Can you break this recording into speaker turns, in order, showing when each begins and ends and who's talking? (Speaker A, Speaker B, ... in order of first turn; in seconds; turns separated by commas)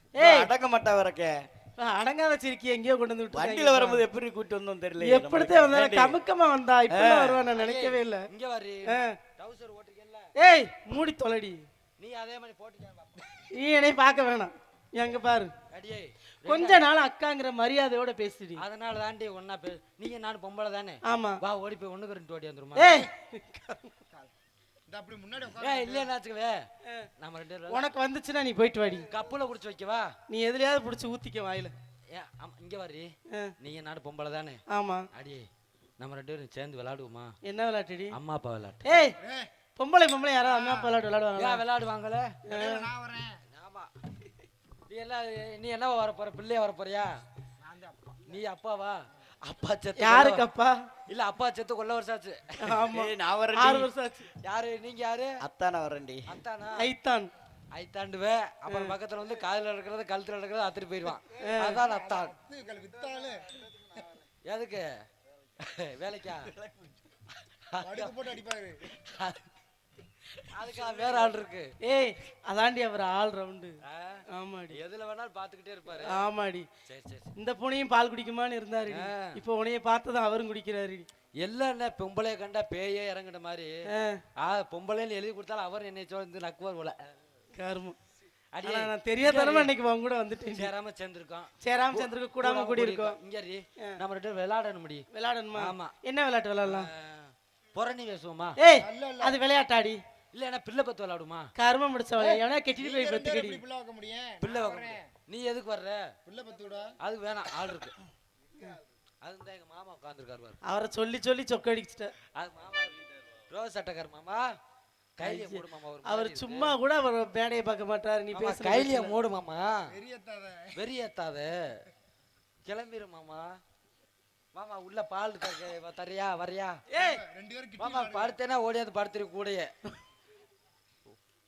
Speaker A: 0.2-1.4, Speaker B: 0.2-0.5, Speaker B: 1.8-4.0, Speaker A: 3.3-6.2, Speaker B: 5.0-8.3, Speaker A: 6.9-7.4, Speaker C: 7.5-10.3, Speaker B: 8.9-9.1, Speaker B: 10.3-11.6, Speaker C: 12.0-13.5, Speaker B: 13.5-15.5, Speaker C: 15.7-16.8, Speaker B: 16.4-18.6, Speaker C: 18.6-23.1, Speaker B: 21.0-21.4, Speaker B: 22.8-23.9, Speaker D: 24.9-26.1, Speaker C: 25.6-26.6, Speaker C: 27.2-27.8, Speaker B: 27.7-29.1, Speaker C: 29.1-30.1, Speaker B: 30.3-31.7, Speaker C: 32.1-34.6, Speaker B: 34.7-35.1, Speaker C: 35.1-35.5, Speaker C: 36.0-37.3, Speaker B: 37.4-38.2, Speaker C: 38.1-39.0, Speaker B: 38.8-39.2, Speaker D: 39.2-39.5, Speaker B: 39.8-41.6, Speaker D: 40.5-40.9, Speaker C: 41.4-42.4, Speaker B: 42.5-42.9, Speaker D: 42.5-43.4, Speaker C: 43.5-43.9, Speaker C: 44.9-47.2, Speaker D: 47.6-48.2, Speaker C: 48.3-50.4, Speaker B: 50.0-50.7, Speaker C: 51.1-52.8, Speaker B: 52.6-54.3, Speaker A: 52.9-53.9, Speaker C: 54.4-55.4, Speaker A: 55.4-56.3, Speaker C: 56.3-56.9, Speaker B: 56.8-57.3, Speaker C: 57.7-62.3, Speaker B: 58.7-58.9, Speaker B: 61.4-61.8, Speaker D: 61.7-64.0, Speaker C: 64.5-64.9, Speaker C: 65.6-66.5, Speaker A: 66.4-67.0, Speaker C: 67.7-68.1, Speaker D: 67.8-68.8, Speaker C: 69.0-69.5, Speaker C: 70.5-71.7, Speaker B: 71.8-73.8, Speaker C: 73.8-76.2, Speaker B: 74.3-74.8, Speaker B: 76.0-76.7, Speaker C: 76.8-77.3, Speaker B: 77.3-81.0, Speaker C: 78.9-79.4, Speaker C: 81.4-83.8, Speaker B: 83.9-84.2, Speaker C: 84.4-87.1, Speaker B: 87.5-88.0, Speaker C: 88.5-89.7, Speaker B: 88.6-90.7, Speaker C: 90.5-95.0, Speaker B: 91.6-93.2, Speaker B: 95.1-96.9, Speaker C: 95.6-95.9, Speaker C: 96.6-98.6, Speaker B: 98.6-100.0, Speaker D: 98.8-99.4, Speaker C: 100.3-101.5, Speaker B: 101.5-103.6, Speaker D: 102.2-105.0, Speaker C: 104.4-106.0, Speaker D: 106.2-106.9, Speaker C: 107.0-107.9, Speaker C: 109.2-110.6, Speaker B: 110.7-112.1, Speaker C: 112.3-114.5, Speaker C: 115.2-116.7, Speaker B: 115.2-119.1, Speaker C: 118.3-119.9, Speaker D: 119.9-120.8, Speaker C: 120.7-121.8, Speaker C: 122.6-123.6, Speaker C: 124.5-126.8, Speaker B: 126.9-127.2, Speaker D: 127.0-128.3, Speaker C: 127.8-129.7